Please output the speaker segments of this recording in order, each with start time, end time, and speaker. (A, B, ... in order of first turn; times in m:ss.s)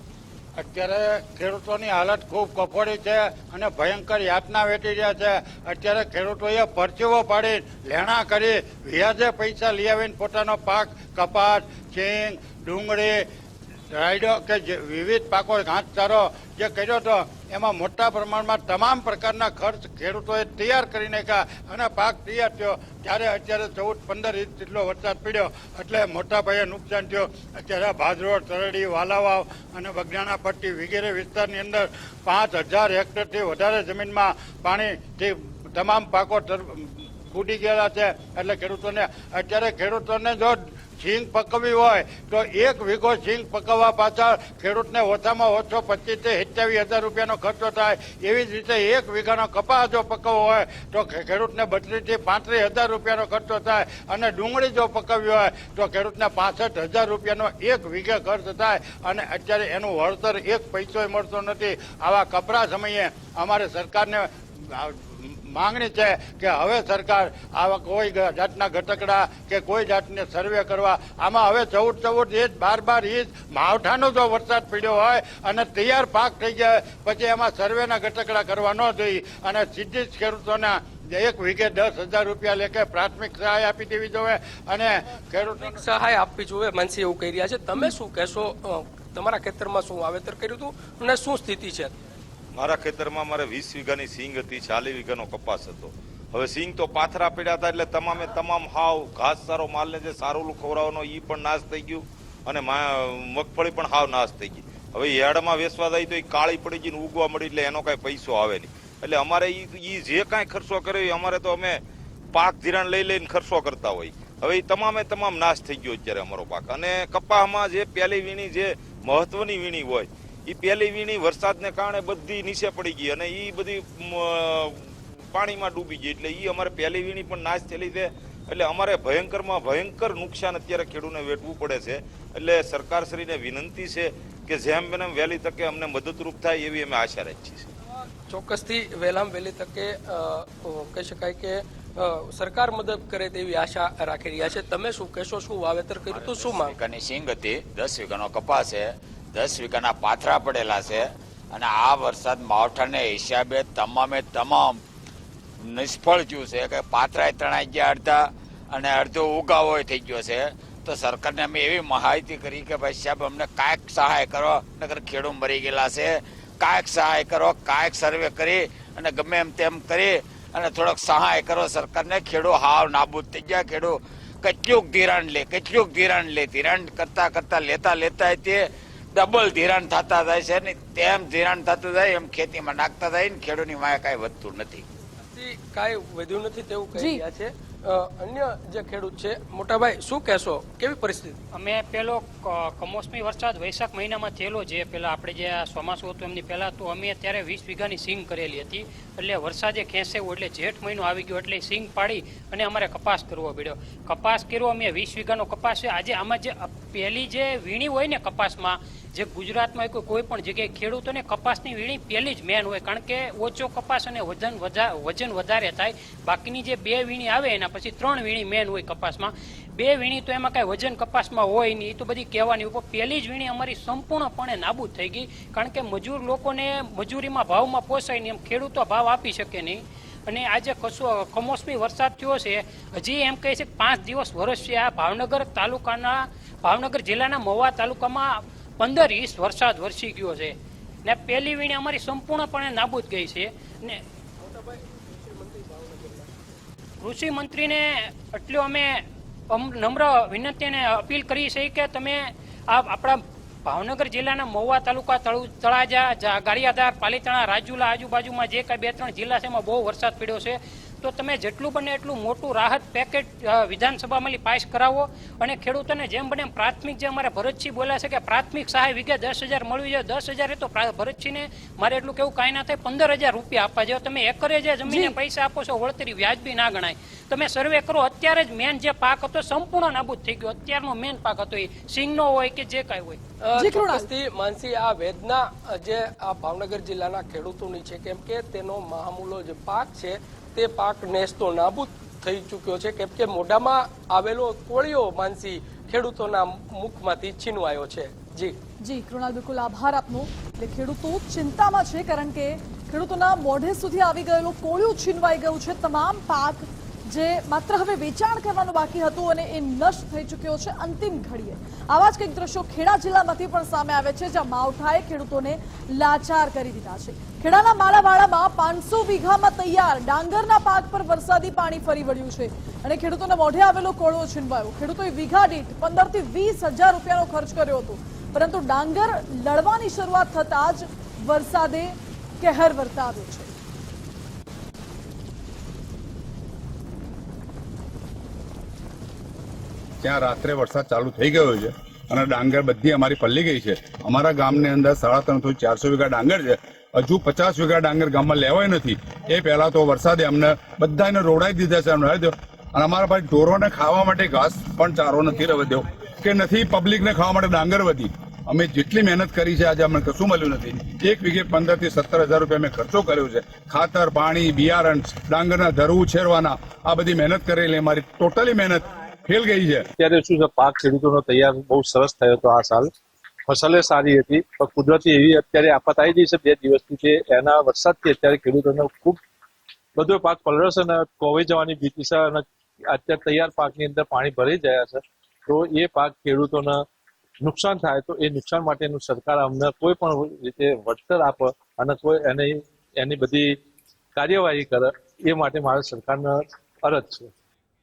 0:00.6-0:13.2 A
0:13.9-1:25.8 A
1:25.6-1:31.9 B
1:32.5-1:51.8 C
1:52.3-2:17.7 C
2:18.2-2:26.8 B
2:26.1-2:34.8 D
2:35.6-3:04.8 D
3:05.2-3:11.4 B
3:06.9-3:07.2 E
3:11.5-4:04.0 F
4:04.4-4:06.4 B
4:07.0-4:43.2 F
4:34.8-4:35.1 E
4:43.4-4:58.6 B
4:43.6-4:44.1 E
4:58.8-5:33.5 E
5:40.0-6:09.8 G
6:10.0-6:12.9 H
6:13.5-6:19.2 H
6:20.0-6:26.8 H
6:27.4-6:33.6 H
6:34.2-6:37.3 H